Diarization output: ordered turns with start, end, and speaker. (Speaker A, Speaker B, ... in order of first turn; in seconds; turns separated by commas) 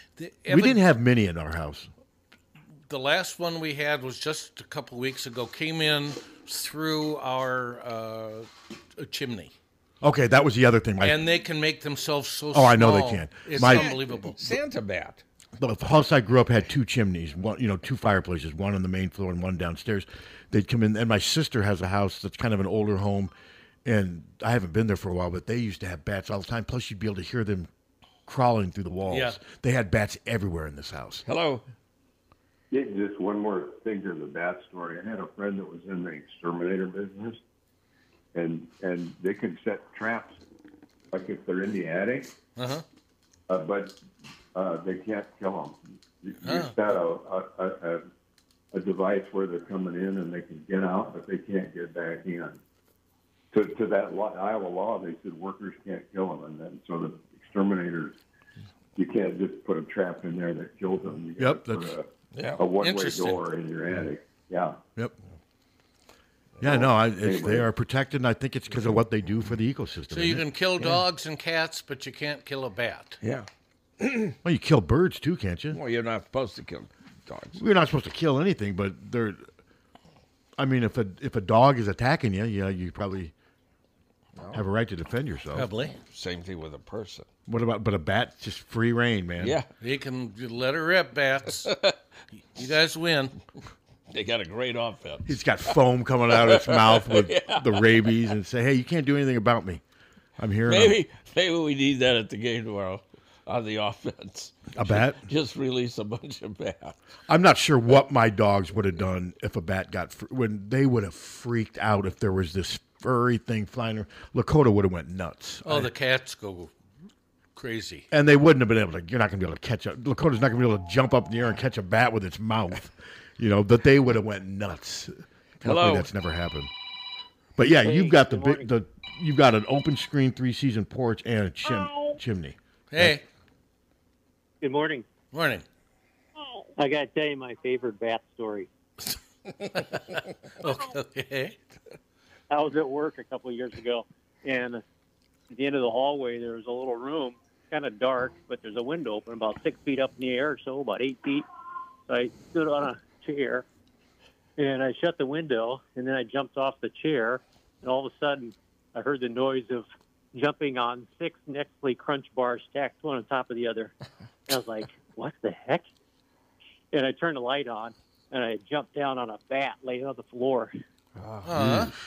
Speaker A: 0.2-0.8, Speaker B: 0.5-1.9, Speaker A: 2.9-9.5, Speaker B: 10.0-11.2, Speaker A: 11.0-14.6, Speaker B: 12.5-13.9, Speaker C: 13.6-15.2, Speaker B: 15.6-23.3, Speaker B: 23.8-27.7, Speaker B: 28.2-31.2, Speaker A: 29.1-29.4, Speaker C: 31.2-31.6, Speaker D: 32.7-37.4, Speaker D: 38.3-40.4, Speaker D: 41.1-42.3, Speaker A: 42.6-42.8, Speaker D: 43.5-44.0, Speaker D: 44.5-48.0, Speaker A: 46.4-46.8, Speaker D: 48.7-52.6, Speaker D: 53.5-58.2, Speaker D: 59.0-64.8, Speaker B: 61.4-61.9, Speaker C: 62.3-62.6, Speaker A: 62.8-63.4, Speaker B: 66.6-70.4, Speaker D: 66.6-67.7, Speaker A: 70.1-73.2, Speaker C: 73.2-73.5, Speaker C: 74.0-74.3, Speaker B: 74.4-75.8, Speaker C: 75.7-77.6, Speaker B: 77.5-79.5, Speaker B: 80.6-83.3, Speaker C: 84.3-84.6, Speaker B: 84.5-85.7, Speaker A: 85.5-86.0, Speaker C: 86.1-87.3, Speaker B: 87.5-89.6, Speaker C: 89.4-89.7, Speaker A: 89.8-91.7, Speaker C: 91.7-91.9, Speaker A: 92.5-93.3, Speaker C: 94.1-95.4, Speaker B: 95.2-99.8, Speaker C: 96.3-98.1, Speaker B: 100.4-101.0, Speaker C: 100.7-107.0, Speaker B: 104.8-105.2, Speaker B: 107.3-115.9, Speaker A: 115.6-116.7, Speaker A: 117.5-118.0, Speaker B: 118.1-126.7, Speaker C: 125.6-126.1, Speaker B: 127.6-133.2, Speaker E: 127.8-128.7, Speaker A: 132.9-133.2, Speaker E: 134.6-135.1, Speaker A: 135.3-135.6, Speaker E: 136.8-138.7, Speaker A: 139.7-141.6, Speaker E: 142.5-144.8, Speaker E: 145.5-151.4, Speaker E: 152.1-153.6, Speaker E: 154.6-163.9, Speaker E: 164.5-165.9, Speaker E: 166.9-170.7, Speaker C: 171.2-171.9, Speaker A: 171.4-171.9, Speaker B: 171.6-171.9